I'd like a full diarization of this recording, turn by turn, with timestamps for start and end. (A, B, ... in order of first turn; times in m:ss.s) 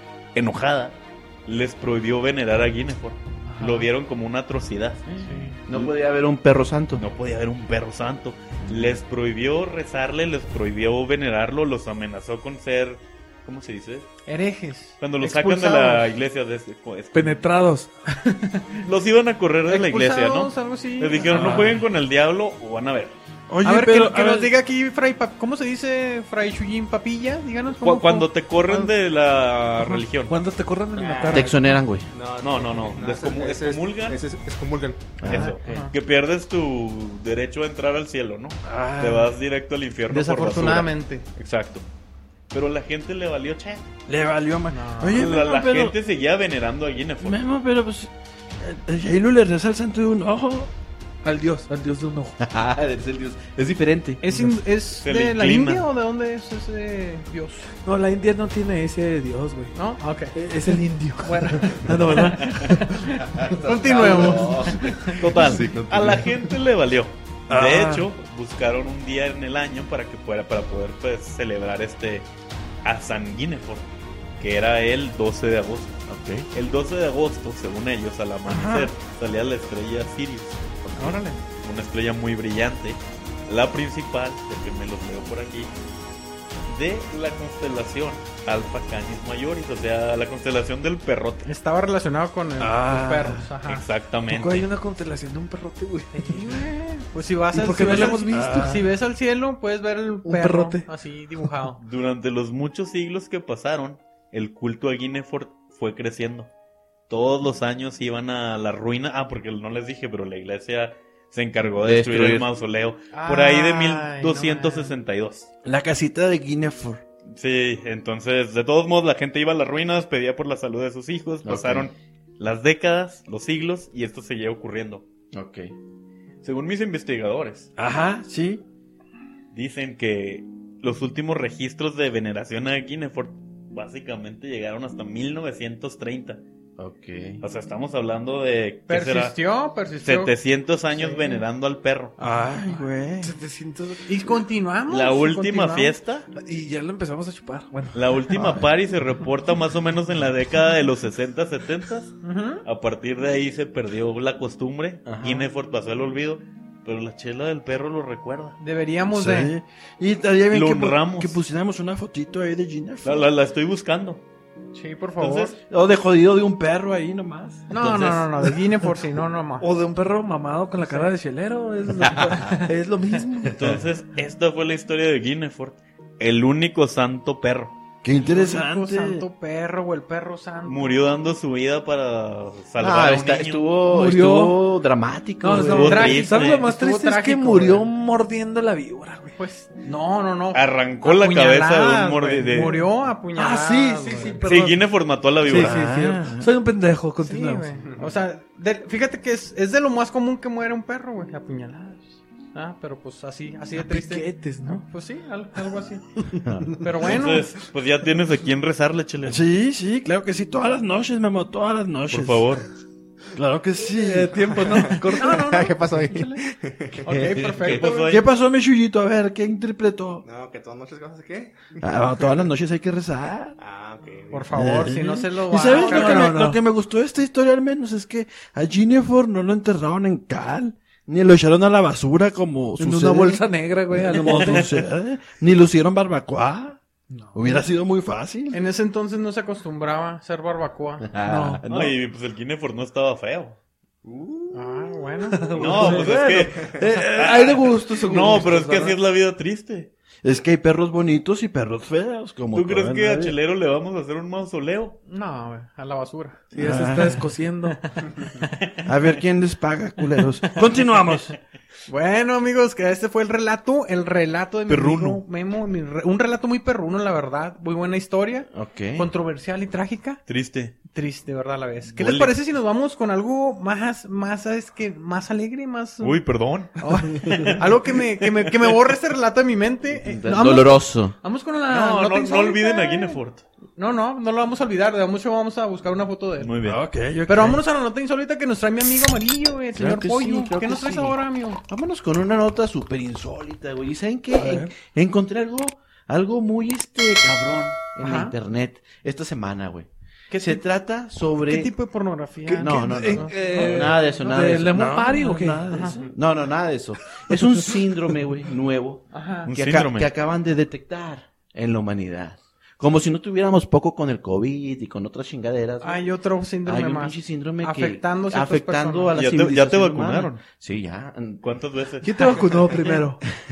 0:00.3-0:05.1 A
0:03.5-0:03.9 B
0:05.1-0:07.0 C
0:05.2-0:05.6 B
0:07.0-0:14.1 A
0:08.6-0:09.0 C
0:14.2-0:16.1 B
0:15.0-0:17.4 A
0:17.1-0:17.9 D
0:18.2-0:18.7 B
0:18.8-0:23.1 A
0:19.7-0:21.6 B
0:21.3-0:21.8 D
0:21.4-0:21.7 E
0:23.5-0:24.5 E
0:23.6-0:28.9 B
0:27.7-0:30.4 A
0:29.8-0:31.8 D
0:30.9-0:35.2 F
0:31.3-0:32.1 C
0:32.4-0:34.2 A
0:35.2-0:35.5 C
0:35.2-0:41.8 A
0:35.6-0:35.9 B
0:38.6-0:39.3 E
0:40.1-0:41.2 B
0:42.5-0:43.9 A
0:44.1-0:45.9 E
0:44.7-0:45.3 B
0:45.1-0:47.4 A
0:47.2-0:50.7 E
0:51.2-0:52.3 D
0:52.4-0:54.2 C
0:54.2-0:57.8 B
0:54.9-0:55.9 A
0:57.8-0:59.8 D
0:59.7-1:00.4 B
1:00.3-1:02.9 D
1:01.2-1:05.6 B
1:02.4-1:02.7 A
1:03.3-1:06.3 C
1:05.1-1:12.3 A
1:07.5-1:08.0 E
1:07.5-1:07.9 D
1:12.8-1:13.9 A
1:14.4-1:16.0 A
1:16.1-1:16.4 C
1:16.5-1:20.6 A
1:18.5-1:18.9 E
1:20.8-1:21.2 C
1:21.0-1:21.4 B
1:21.6-1:25.7 A
1:26.7-1:31.5 A
1:31.4-1:33.8 B
1:32.6-1:33.5 E
1:33.6-1:34.7 A
1:34.3-1:36.5 D
1:36.2-1:41.8 B
1:37.5-1:38.7 D
1:37.8-1:38.8 E
1:40.2-1:40.9 D
1:41.8-1:46.5 A
1:47.1-1:55.5 A
1:51.8-1:52.5 C
1:53.1-1:55.0 B
1:55.6-1:57.0 E
1:57.4-2:05.0 A
2:01.4-2:01.9 C
2:05.3-2:05.7 C
2:06.4-2:07.7 A
2:07.8-2:08.6 E
2:09.5-2:16.4 A
2:16.8-2:17.4 C
2:17.4-2:19.4 A
2:18.9-2:20.3 B
2:20.0-2:22.1 A
2:20.9-2:21.4 B
2:22.2-2:23.3 E
2:23.2-2:24.2 D
2:24.0-2:26.0 B
2:24.9-2:26.3 A
2:26.4-2:28.0 D
2:27.9-2:38.6 A
2:28.4-2:28.6 E
2:32.2-2:32.6 B
2:35.1-2:35.4 C
2:38.6-2:39.5 B
2:39.1-2:43.3 E
2:40.5-2:41.4 A
2:43.0-2:44.2 A
2:44.7-2:45.6 B
2:45.2-2:45.6 A
2:45.7-2:47.7 E
2:47.7-2:49.7 B
2:47.7-2:48.3 A
2:49.6-2:53.6 D
2:50.8-2:51.1 B
2:52.0-2:52.5 C
2:53.5-2:57.7 A
2:58.0-2:59.2 E
2:58.2-3:01.0 B
3:00.6-3:03.6 A
3:02.8-3:06.2 C
3:03.9-3:04.6 D
3:05.4-3:09.4 D
3:05.6-3:06.7 A
3:05.8-3:07.9 B
3:09.4-3:14.5 B
3:10.5-3:12.8 A
3:13.4-3:14.4 E
3:13.5-3:14.8 D
3:14.4-3:15.9 A
3:15.4-3:17.6 D
3:15.4-3:16.5 E
3:17.2-3:26.2 B
3:23.7-3:24.8 D
3:26.4-3:26.8 C
3:26.8-3:27.6 B
3:27.0-3:29.4 A
3:29.2-3:32.5 E
3:32.1-3:32.6 A
3:33.3-3:34.9 E
3:33.9-3:35.6 D
3:34.9-3:37.3 F
3:35.1-3:36.4 B
3:37.0-3:38.2 B
3:37.6-3:38.2 A
3:38.1-3:40.2 E
3:40.2-3:41.8 F
3:41.8-3:43.6 E
3:43.6-3:44.5 F
3:44.3-3:46.5 B
3:44.5-3:56.8 E
3:45.7-3:46.6 D
3:52.8-3:54.7 D
3:54.2-3:54.6 A
3:57.3-3:58.6 E
3:58.5-4:01.1 B
4:01.1-4:01.9 C
4:01.2-4:01.6 D
4:01.6-4:03.6 A
4:04.0-4:04.8 E
4:04.5-4:05.9 B
4:05.4-4:09.0 D
4:05.5-4:09.9 A
4:05.5-4:08.2 E
4:10.2-4:13.4 E
4:12.5-4:15.0 A
4:15.1-4:16.5 B
4:16.5-4:17.8 D
4:16.5-4:17.3 E
4:17.8-4:18.5 B
4:18.8-4:21.4 E
4:21.9-4:30.2 B
4:24.7-4:25.2 A
4:28.5-4:29.1 C
4:30.3-4:30.7 A
4:30.9-4:36.2 B
4:31.9-4:32.3 A
4:36.0-4:38.6 A
4:36.8-4:43.2 B
4:40.1-4:41.1 C
4:41.7-4:43.4 A
4:43.8-4:46.5 B
4:46.4-4:46.8 A
4:46.6-4:47.6 E
4:47.3-4:51.6 B
4:49.7-5:01.7 C
4:58.0-4:58.3 B
5:00.3-5:00.6 B
5:01.4-5:03.9 B
5:02.4-5:05.9 D
5:02.6-5:04.9 C
5:04.6-5:06.0 E
5:05.7-5:06.1 B
5:06.1-5:16.1 C
5:09.1-5:09.5 B
5:09.5-5:10.1 A
5:15.8-5:19.2 B
5:16.6-5:21.4 C
5:19.1-5:20.4 A
5:21.4-5:22.1 A
5:22.0-5:23.2 D